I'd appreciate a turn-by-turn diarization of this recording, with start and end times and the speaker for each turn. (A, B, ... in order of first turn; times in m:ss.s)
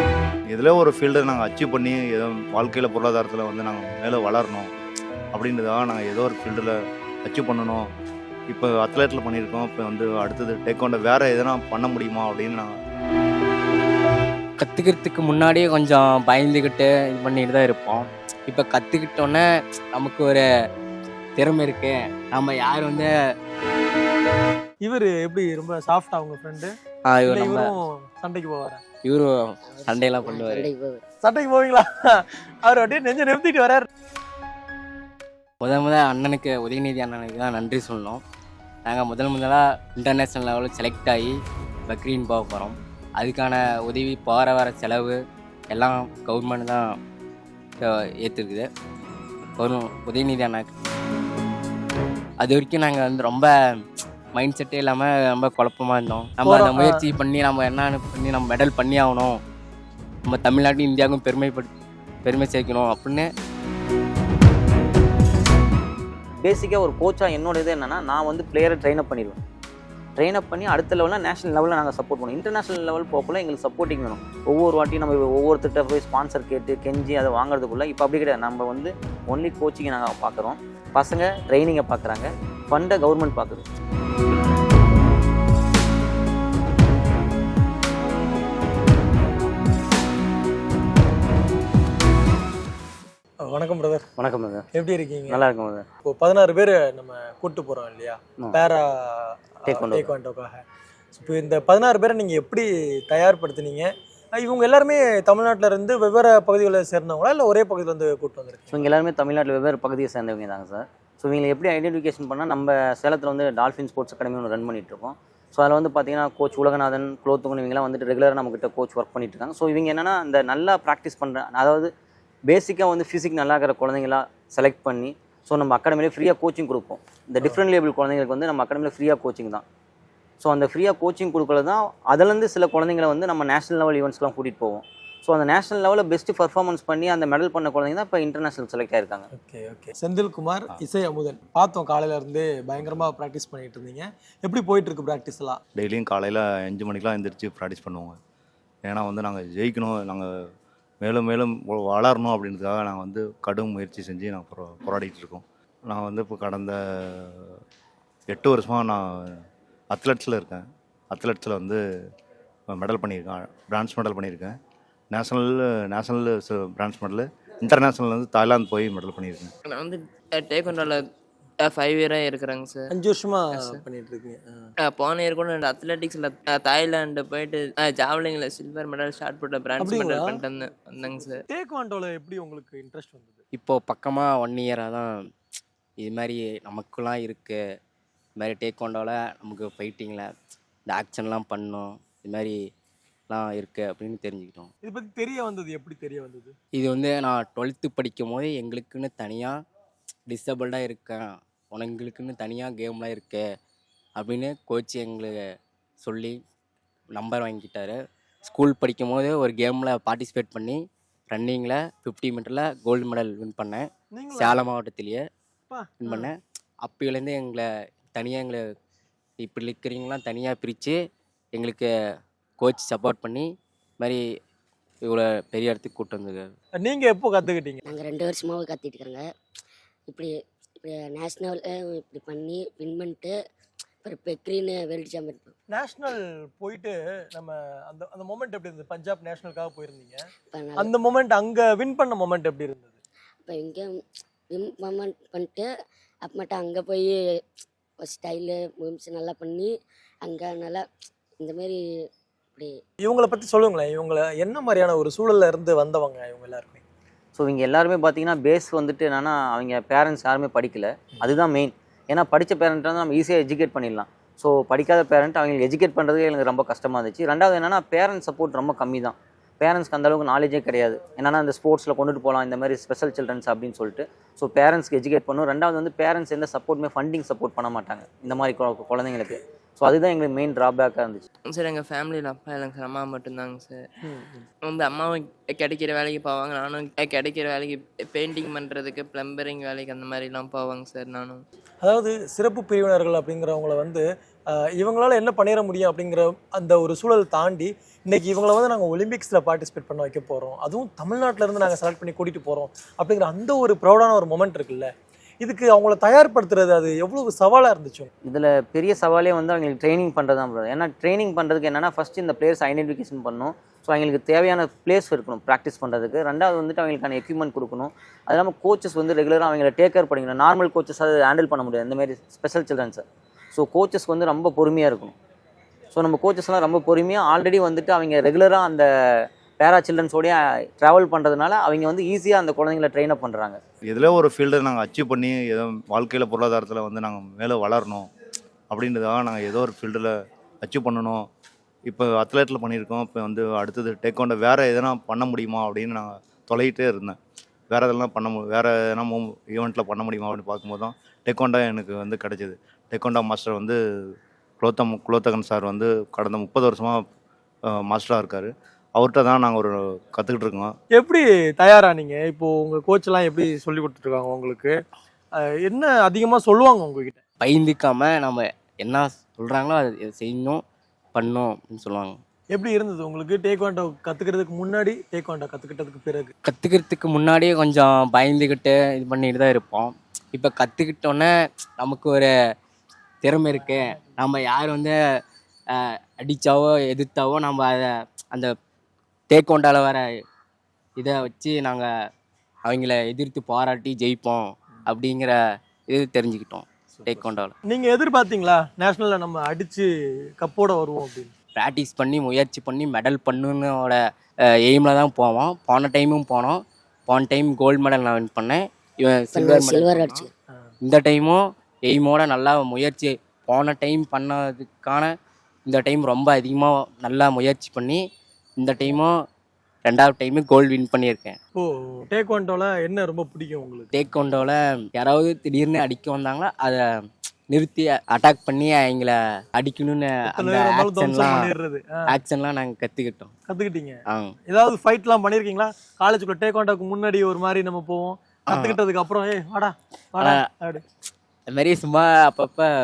0:00.5-0:04.7 A
0:05.3-0:07.9 A
0:08.5-0:12.7 A
0:14.6-0:20.4 B
0:21.4-0:23.1 B
0:24.8-0:26.7 C
0:27.1-0:27.7 B
0:27.3-0:28.8 C
0:29.0-0:29.3 B
0:29.7-0:31.0 D
0:29.9-0:30.7 B
0:31.2-0:33.9 C
0:35.6-0:38.2 B
0:38.9-0:41.3 B
0:41.9-0:45.2 B
0:45.7-0:46.9 B
0:47.9-0:48.7 B
0:49.6-0:50.7 B
0:52.4-0:53.5 B
0:54.4-0:59.4 B
0:56.5-0:57.0 C
1:00.3-1:01.7 B
1:02.2-1:03.3 B
1:06.4-1:09.4 E
1:10.2-1:23.7 E
1:33.4-1:34.1 C
1:34.2-1:34.7 E
1:34.8-1:35.3 C
1:35.3-1:35.9 E
1:36.1-1:40.6 C
1:39.7-1:40.2 E
1:41.1-1:48.9 C
1:48.7-2:01.9 E
2:02.5-2:09.6 E
2:10.4-2:19.3 E
2:19.4-2:25.6 C
2:25.8-2:28.2 A
2:28.9-2:30.3 A
2:31.0-2:37.6 A
2:38.3-2:39.4 A
2:39.9-2:41.8 A
2:42.7-2:44.6 A
2:45.1-2:49.5 A
2:49.7-2:51.0 F
2:51.6-2:52.9 F
2:52.9-2:54.7 C
2:53.6-2:53.8 F
2:54.9-3:01.4 F
2:59.8-3:00.4 C
3:01.5-3:03.4 C
3:03.6-3:05.1 B
3:06.0-3:07.6 B
3:08.4-3:10.3 B
3:10.9-3:12.6 B
3:13.3-3:14.7 B
3:14.8-3:16.6 C
3:16.8-3:19.6 B
3:20.3-3:23.4 B
3:24.2-3:25.4 B
3:26.0-3:26.4 B
3:27.2-3:30.8 B
3:31.3-3:35.2 B
3:34.1-3:34.6 C
3:35.7-3:36.2 C
3:36.0-3:38.6 B
3:39.4-3:41.0 B
3:41.6-3:41.9 B
3:42.6-3:43.5 B
3:45.1-3:46.5 B
3:46.8-3:47.8 C
3:47.9-3:49.2 D
3:50.1-3:53.3 D
3:54.0-3:55.5 D
3:55.7-4:03.0 C
4:00.5-4:01.0 D
4:03.5-4:04.0 D
4:04.5-4:05.7 D
4:06.2-4:07.1 D
4:08.0-4:09.7 D
4:10.2-4:10.8 D
4:11.4-4:11.8 D
4:13.0-4:16.8 C
4:17.4-4:41.2 E
4:41.5-4:43.8 F
4:44.0-4:44.5 C
4:44.7-4:51.4 F
4:51.8-5:08.1 C
5:08.3-5:25.2 E
5:25.9-5:33.6 E
5:33.9-5:38.1 A
5:38.7-5:41.3 A
5:41.9-5:47.2 A
5:47.7-5:53.8 A
5:54.6-5:57.0 A
5:57.7-6:00.7 A
6:00.9-6:04.8 C
6:05.4-6:07.2 C
6:07.4-6:10.6 B
6:11.2-6:12.2 B
6:12.5-6:16.3 C
6:16.5-6:22.3 B
6:23.2-6:25.0 B
6:25.8-6:28.5 B
6:29.3-6:30.0 B
6:31.0-6:31.9 B
6:32.7-6:35.4 B
6:35.9-6:37.6 B
6:36.9-6:41.3 C
6:41.6-6:44.0 B
6:44.7-6:50.1 B
6:49.3-6:50.3 D
6:50.8-6:55.1 B
6:55.7-6:58.0 B
6:58.6-6:59.1 B
6:59.9-7:01.4 B
7:01.6-7:03.9 C
7:03.9-7:06.8 B
7:07.5-7:11.5 B
7:10.3-7:12.1 C
7:12.1-7:13.3 B
7:13.5-7:20.8 C
7:18.5-7:18.8 B
7:21.5-7:22.7 B